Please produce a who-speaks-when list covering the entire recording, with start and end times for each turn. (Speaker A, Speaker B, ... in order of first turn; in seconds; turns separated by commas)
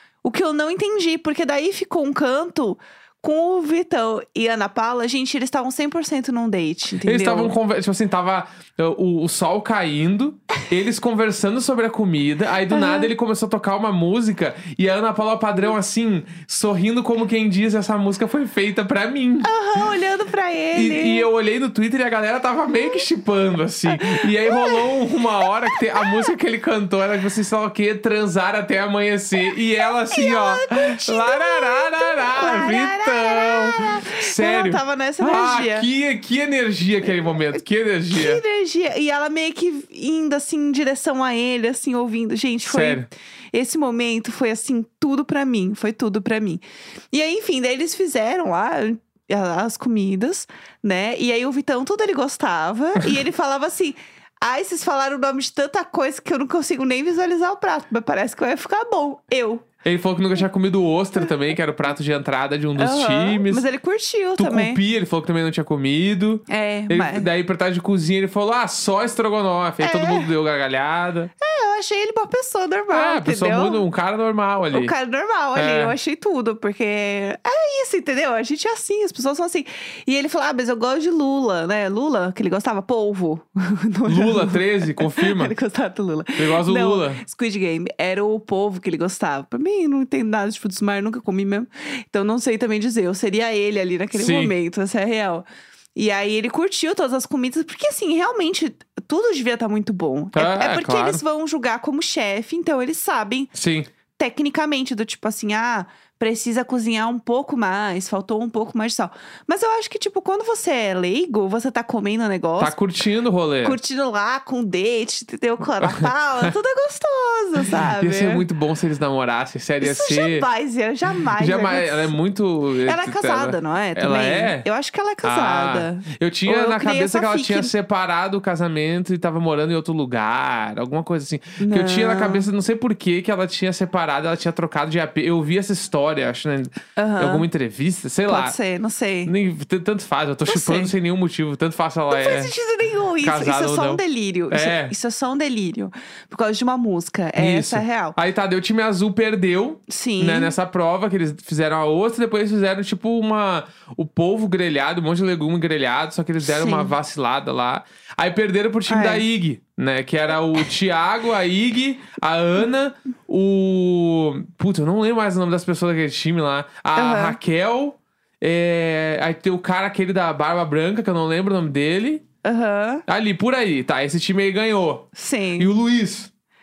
Speaker A: 0.2-7.5, Speaker B: 7.0-19.5, Speaker A: 12.7-13.1, Speaker A: 19.4-21.3, Speaker B: 20.8-38.4, Speaker A: 23.9-26.3, Speaker A: 30.0-35.9, Speaker A: 38.1-59.7, Speaker B: 42.7-43.1, Speaker B: 59.8-63.7, Speaker A: 62.8-64.8, Speaker B: 64.4-71.3, Speaker A: 66.5-67.3, Speaker A: 69.8-70.3, Speaker A: 71.4-73.8, Speaker B: 72.9-74.9, Speaker A: 74.7-103.5, Speaker B: 75.5-76.0, Speaker B: 84.1-85.5, Speaker B: 86.4-87.2, Speaker B: 94.1-94.5, Speaker B: 100.3-101.2, Speaker B: 103.5-103.9, Speaker A: 104.2-112.8, Speaker B: 112.6-113.8, Speaker A: 113.6-118.5, Speaker B: 115.8-116.5, Speaker B: 117.6-120.5, Speaker A: 119.8-122.2, Speaker B: 121.3-124.7, Speaker A: 122.8-127.7, Speaker B: 125.2-138.6, Speaker A: 131.6-132.5, Speaker A: 137.0-137.5, Speaker A: 138.3-139.3, Speaker B: 139.3-142.5, Speaker A: 140.5-140.9, Speaker A: 142.1-148.2, Speaker B: 143.2-144.9, Speaker B: 147.4-172.2, Speaker A: 149.9-150.5, Speaker A: 156.4-156.9, Speaker A: 158.9-159.2, Speaker A: 166.9-167.4, Speaker A: 172.4-173.1, Speaker B: 173.1-176.3, Speaker A: 175.2-175.7